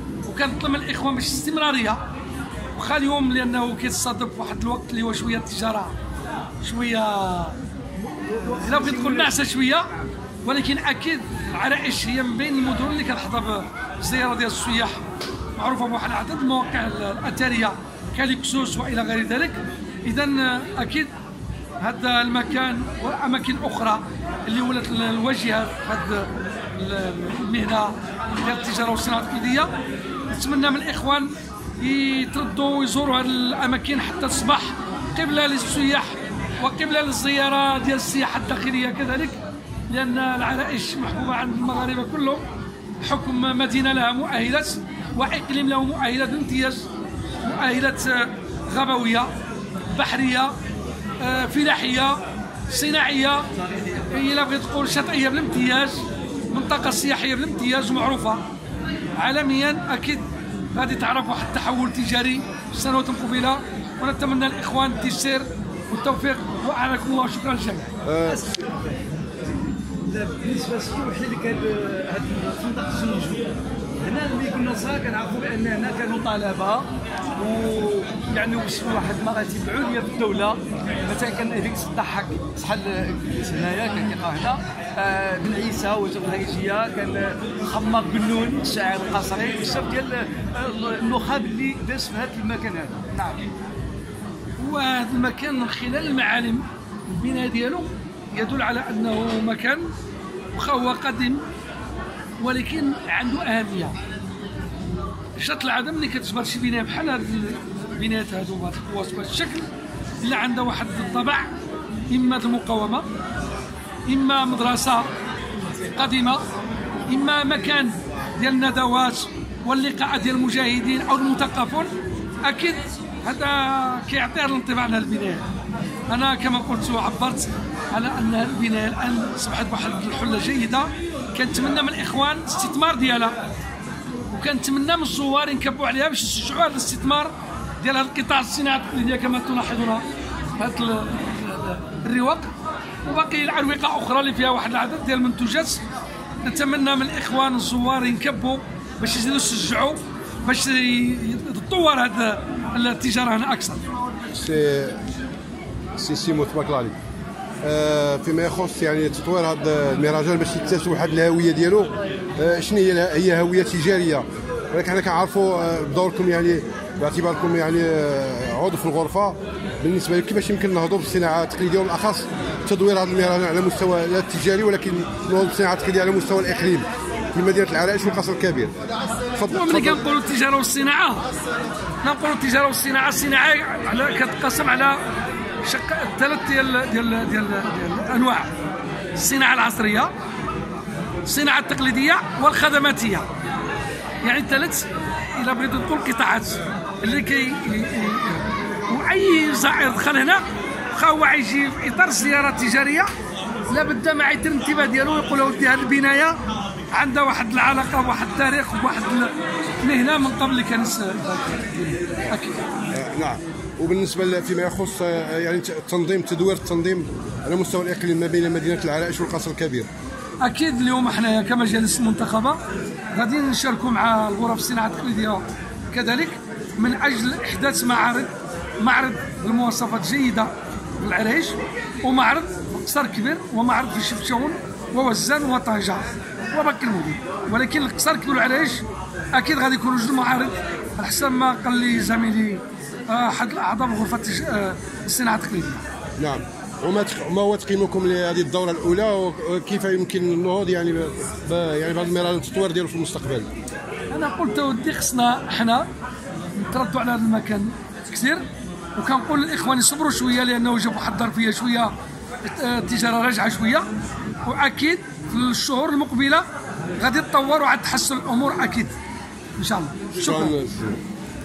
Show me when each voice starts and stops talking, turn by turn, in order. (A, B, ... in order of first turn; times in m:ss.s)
0:00.3-0:02.0 A
0:02.7-0:06.0 A
0:06.6-0:07.6 A
0:08.2-0:09.5 B
0:08.6-0:09.9 A
0:10.4-0:21.1 A
0:21.8-0:29.7 A
0:30.3-0:42.4 A
0:43.0-0:46.9 A
0:47.4-0:49.3 A
0:49.9-0:50.5 A
0:51.2-0:58.4 A
0:59.2-1:07.9 A
1:08.0-1:08.4 C
1:08.2-1:09.0 B
1:10.0-1:33.5 B
1:34.6-1:39.9 A
1:40.5-1:41.4 A
1:42.4-1:44.0 A
1:45.4-1:49.7 A
1:50.2-1:51.5 A
1:52.1-1:53.1 A
1:54.1-1:55.1 A
1:55.9-1:56.4 A
1:57.1-2:01.9 A
2:02.4-2:05.5 A
2:06.1-2:13.3 A
2:14.3-2:20.0 A
2:20.6-2:22.5 A
2:23.0-2:25.8 A
2:26.4-2:33.9 A
2:34.3-2:35.0 C
2:36.0-2:37.0 C
2:37.6-2:58.8 C
2:59.4-3:00.0 C
2:59.5-3:01.3 A
3:02.0-3:05.0 A
3:05.6-3:08.5 A
3:09.2-3:10.1 A
3:11.2-3:13.3 A
3:14.2-3:23.1 A
3:23.7-3:26.4 A
3:26.9-3:32.7 A
3:32.9-3:39.9 C
3:40.4-3:42.6 A
3:43.1-4:05.8 A
4:06.2-4:13.5 C
4:14.1-4:15.9 A
4:16.6-4:18.4 A
4:19.0-4:23.9 A
4:24.4-4:26.5 A
4:27.0-4:29.0 A
4:29.6-4:30.6 A
4:30.2-4:31.0 C